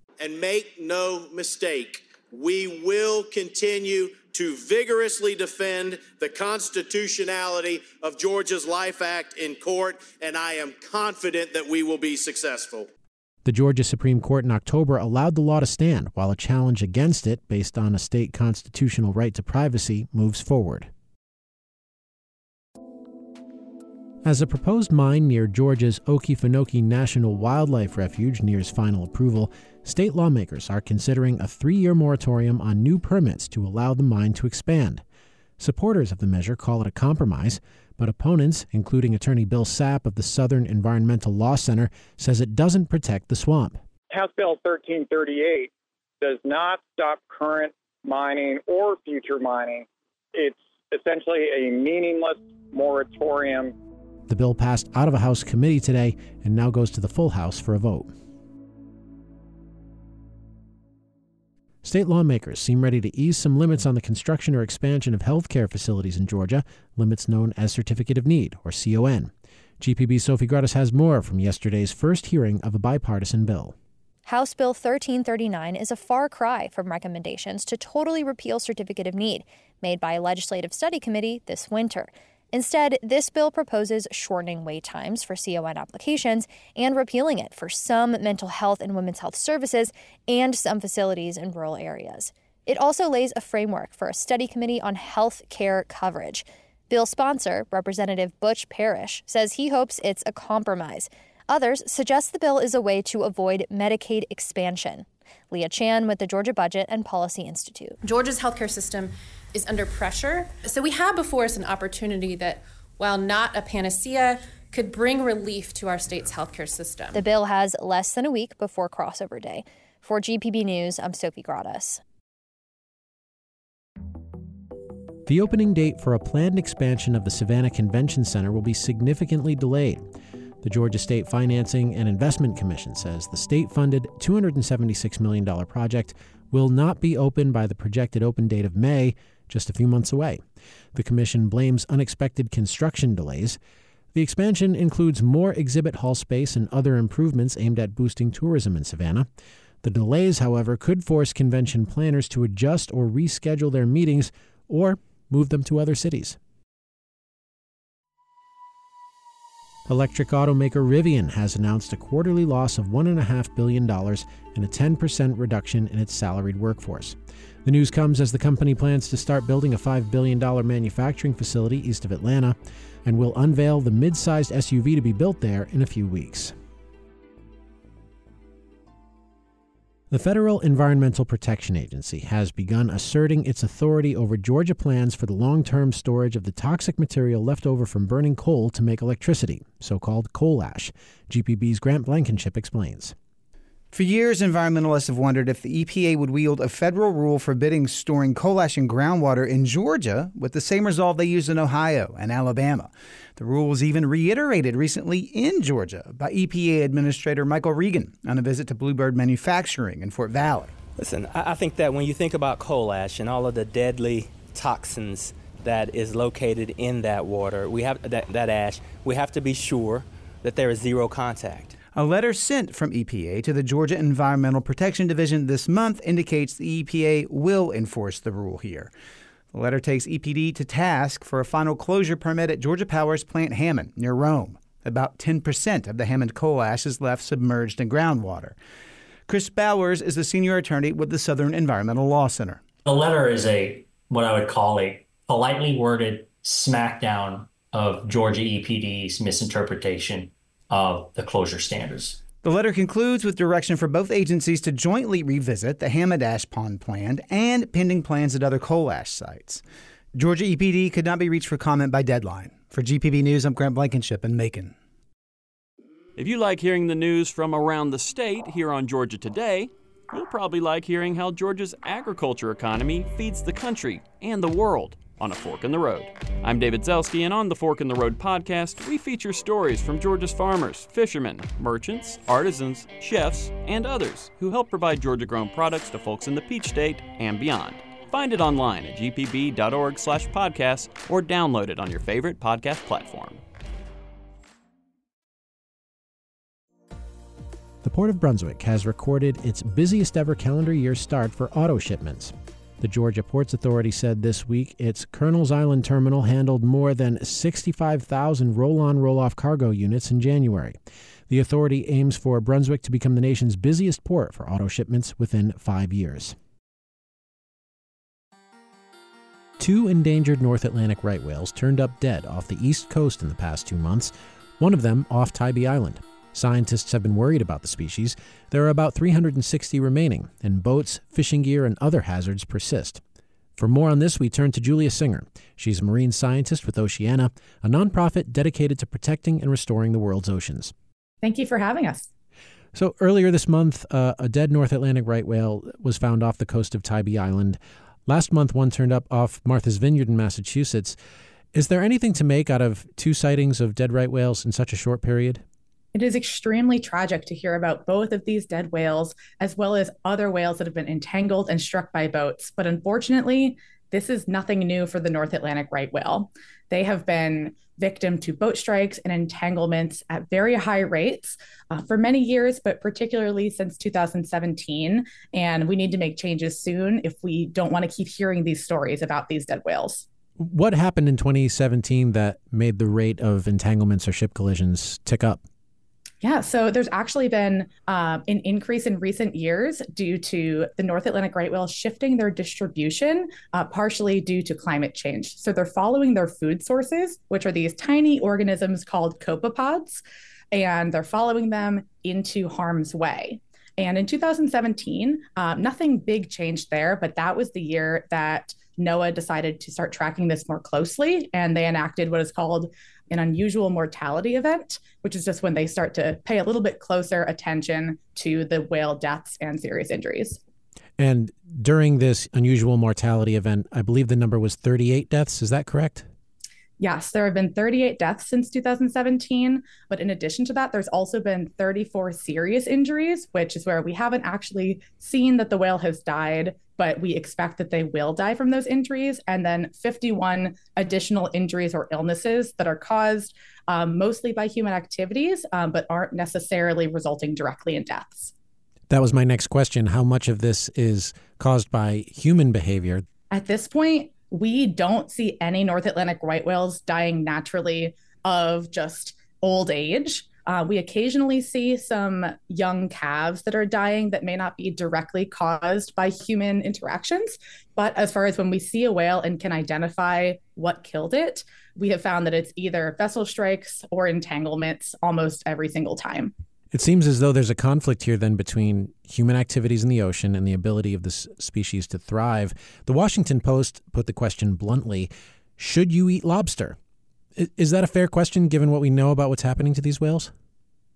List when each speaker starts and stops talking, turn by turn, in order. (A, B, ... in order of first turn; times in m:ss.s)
0:00.2-0:12.9 A
0:00.4-0:00.6 B
0:01.2-0:01.9 B
0:02.7-0:12.7 B
0:13.4-0:20.9 C
0:24.2-0:35.0 C
0:35.6-0:43.8 C
0:44.1-0:45.7 D
0:46.2-0:53.7 D
0:54.3-0:58.1 C
1:01.8-1:13.7 C
1:14.2-1:48.0 E
1:48.0-1:57.1 F
1:57.1-2:02.0 E
2:05.2-2:10.0 C
2:10.6-2:20.4 C
2:20.9-2:23.6 C
2:24.1-2:29.3 C
2:29.8-2:36.4 C
2:39.9-2:56.5 C
3:00.1-3:13.1 C
3:13.9-3:30.7 G
3:31.0-3:41.8 H
3:41.9-3:48.9 G
3:49.5-3:58.6 G
3:59.3-4:02.6 G
4:02.8-4:12.2 B
4:12.4-4:19.6 G
4:20.1-4:24.7 G
4:26.2-4:53.4 I
4:57.8-5:10.8 C
5:11.3-5:16.3 C
5:19.6-5:33.0 C
5:33.6-5:40.7 C
5:41.2-5:42.1 J
5:42.7-5:51.0 C
5:51.5-5:55.4 C
5:55.9-6:20.0 J
6:20.4-6:25.4 C
6:26.2-7:00.4 J
7:01.0-7:06.1 C
7:06.8-7:28.3 J
7:28.9-7:33.0 C
7:33.3-7:56.3 J
7:56.7-8:06.8 C
8:07.4-8:10.3 C